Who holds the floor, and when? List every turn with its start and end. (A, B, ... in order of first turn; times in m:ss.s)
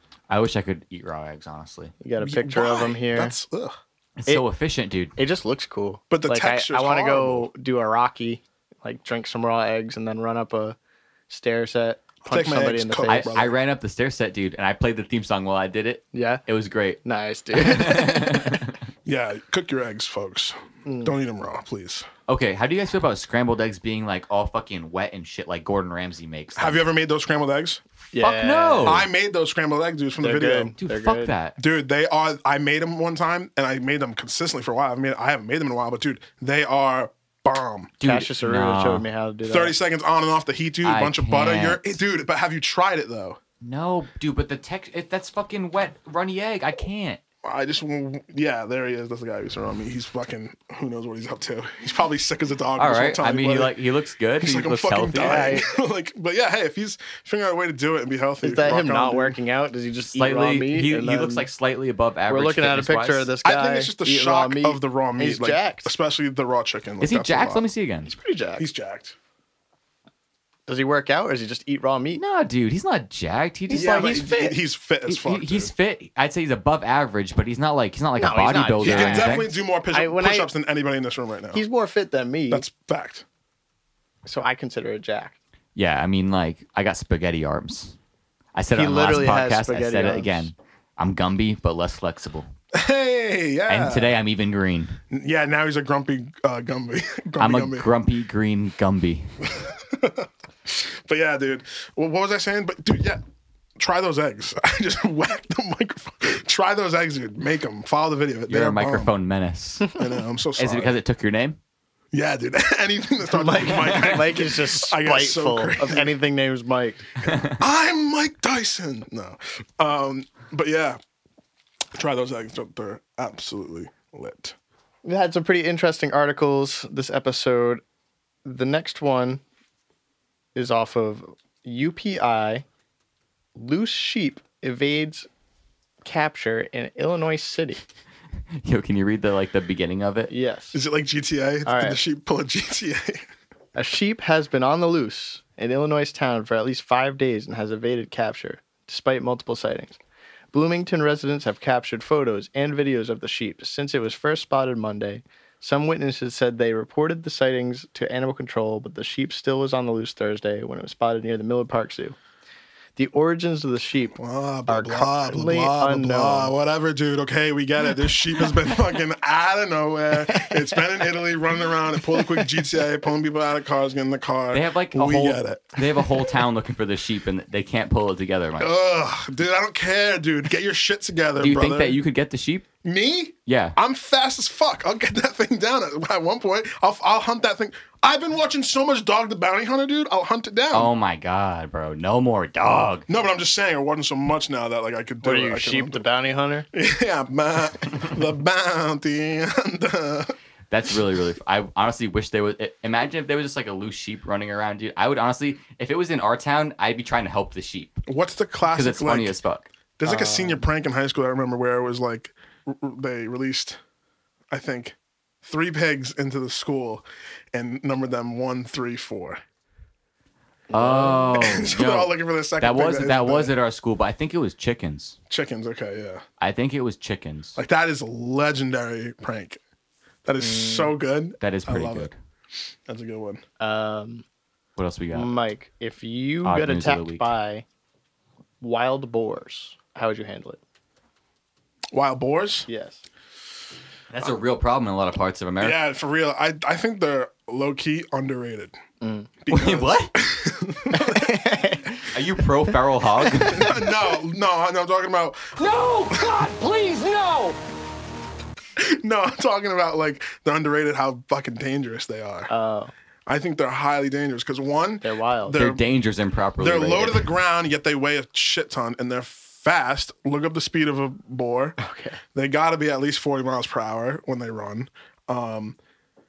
0:00.3-0:01.9 A
0:02.0-0:03.4 B
0:02.2-0:03.8 C
0:04.2-0:05.2 A
0:05.2-0:10.8 B
0:06.1-0:07.5 C
0:11.3-0:13.3 B
0:12.2-0:13.6 C
0:13.1-0:17.0 A
0:16.1-0:16.4 B
0:17.0-0:18.6 B
0:17.5-0:18.8 A
0:19.1-0:22.1 C
0:20.8-0:21.2 B
0:22.3-0:26.8 A
0:26.6-0:27.8 C
0:28.1-0:29.0 B
0:28.1-0:29.1 A
0:28.8-0:30.7 C
0:30.2-0:31.3 B
0:30.8-0:31.6 A
0:31.6-0:37.9 C
0:38.0-0:39.1 A
0:38.0-0:39.8 B
0:39.5-0:43.4 C
0:40.8-0:42.0 A
0:43.6-0:47.2 A
0:47.4-0:53.7 C
0:52.8-0:55.6 A
0:54.4-0:59.4 C
0:55.2-0:55.7 B
0:58.4-1:01.5 B
1:00.1-1:03.3 A
1:02.3-1:05.9 B
1:03.4-1:07.7 C
1:07.0-1:08.1 A
1:08.1-1:08.7 B
1:08.6-1:09.2 C
1:10.7-1:12.2 B
1:12.2-1:14.4 A
1:13.7-1:15.7 C
1:13.7-1:14.5 B
1:15.1-1:19.5 A
1:18.2-1:20.5 B
1:18.8-1:21.6 C
1:21.5-1:22.7 B
1:22.5-1:23.2 C
1:24.2-1:25.4 B
1:25.8-1:28.0 A
1:28.6-1:32.5 A
1:28.7-1:30.5 B
1:32.7-1:34.2 C
1:33.7-1:35.0 A
1:35.1-1:37.9 C
1:37.4-1:39.3 A
1:39.5-1:43.2 C
1:43.8-1:49.1 C
1:48.5-1:50.0 A
1:50.0-1:50.9 C
1:50.6-1:51.6 A
1:52.1-1:56.2 C
1:53.3-1:57.0 B
1:57.3-1:57.6 A
1:57.5-2:01.0 C
2:01.9-2:04.6 C
2:05.0-2:07.8 B
2:08.4-2:09.4 B
2:10.6-2:12.6 B
2:13.6-2:15.3 B
2:16.0-2:17.8 B
2:18.6-2:20.3 A
2:20.3-2:20.8 B
2:20.7-2:23.2 C
2:21.6-2:22.0 B
2:23.8-2:30.0 B
2:30.5-2:42.2 B
2:43.0-2:44.2 B
2:44.2-2:55.8 C
2:44.7-2:46.5 B
2:54.5-2:58.7 A
2:58.6-3:02.0 C
3:01.4-3:02.7 A
3:02.8-3:10.9 C
3:03.5-3:03.8 A
3:10.7-3:13.1 A
3:13.1-3:16.0 C
3:15.2-3:16.7 B
3:16.7-3:20.3 C
3:20.7-3:28.0 A
3:28.1-3:29.4 C
3:28.7-3:29.7 A
3:30.0-3:33.8 C
3:30.0-3:30.7 B
3:34.5-3:39.4 C
3:40.7-3:41.2 B
3:40.7-3:45.2 A
3:41.0-3:43.6 C
3:45.3-3:46.2 C
3:46.4-3:47.6 A
3:47.6-3:49.6 C
3:50.2-3:52.1 C
3:50.4-3:51.0 B
3:51.4-3:52.2 A
3:52.9-3:53.4 C
3:53.6-3:54.2 B
3:54.8-3:55.3 A
3:55.1-3:57.6 B
3:56.4-3:57.3 A
3:58.6-4:00.6 B
4:01.9-4:02.7 C
4:02.7-4:03.0 B
4:04.1-4:05.8 A
4:05.6-4:08.8 C
4:09.0-4:09.3 B
4:09.4-4:11.5 C
4:09.5-4:10.2 A
4:10.9-4:12.1 B
4:12.1-4:13.7 A
4:13.4-4:15.6 C
4:15.6-4:17.6 D
4:18.8-4:22.5 C
4:22.5-4:22.9 B
4:23.3-4:25.9 C
4:25.0-4:25.6 B
4:25.5-4:27.3 A
4:26.6-4:31.8 C
4:31.8-4:32.2 B
4:32.3-4:35.8 C